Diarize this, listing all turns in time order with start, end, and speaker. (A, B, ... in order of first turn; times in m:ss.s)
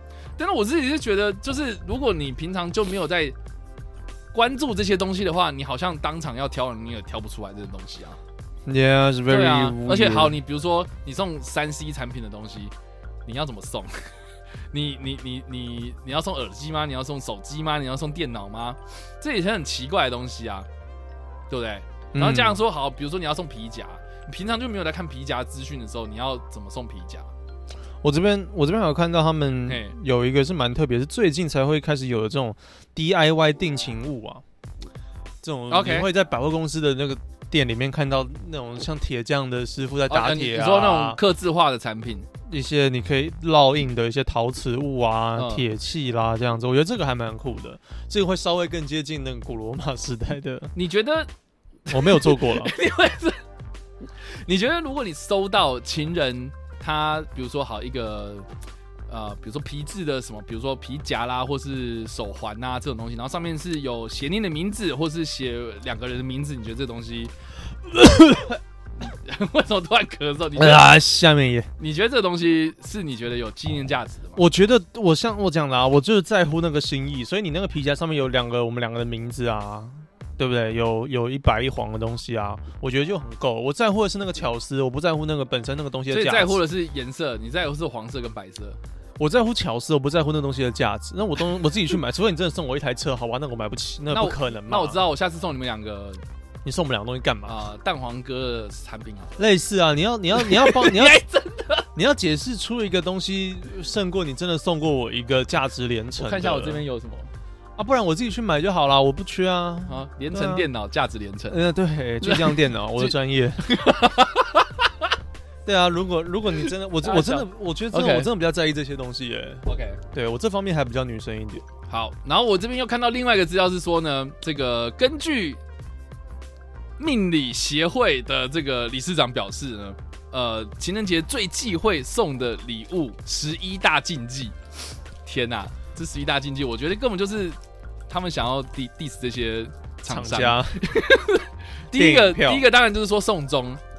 0:00.4-0:03.4 A
0:04.3-0:08.2 A
0:08.7-0:10.4 B
0:09.3-0:12.7 A
0:13.3-0:14.2 A
0:14.7-0:20.7 A
0:21.5-0:27.3 A
0:22.1-0:22.6 B
0:28.0-0:34.4 B
0:29.7-0:29.9 A
0:35.4-0:41.2 B
0:35.7-0:36.1 A
0:40.1-0:42.3 A
0:42.5-0:50.7 B
0:45.4-0:45.6 A
0:50.8-0:51.3 A
0:51.9-0:53.4 A
0:51.9-0:52.7 B
0:54.2-0:58.5 A
0:59.1-1:07.3 A
1:07.9-1:08.6 B
1:09.0-1:10.9 A
1:10.6-1:11.7 B
1:11.8-1:14.4 A
1:14.4-1:26.6 B
1:26.1-1:28.8 A
1:29.2-1:35.0 B
1:34.1-1:36.2 A
1:36.6-1:37.6 B
1:37.5-1:39.4 A
1:39.4-1:41.2 B
1:40.4-1:41.9 A
1:42.0-1:46.8 B
1:46.2-1:47.3 A
1:47.8-1:50.7 B
1:49.9-1:51.6 A
1:51.5-1:53.7 B
1:52.2-1:55.1 A
1:55.7-2:01.6 B
1:56.6-1:58.3 A
1:59.6-2:00.0 A
2:01.9-2:05.6 A
2:07.0-2:14.6 A
2:15.2-2:23.8 A
2:20.1-2:20.9 B
2:21.9-2:22.7 B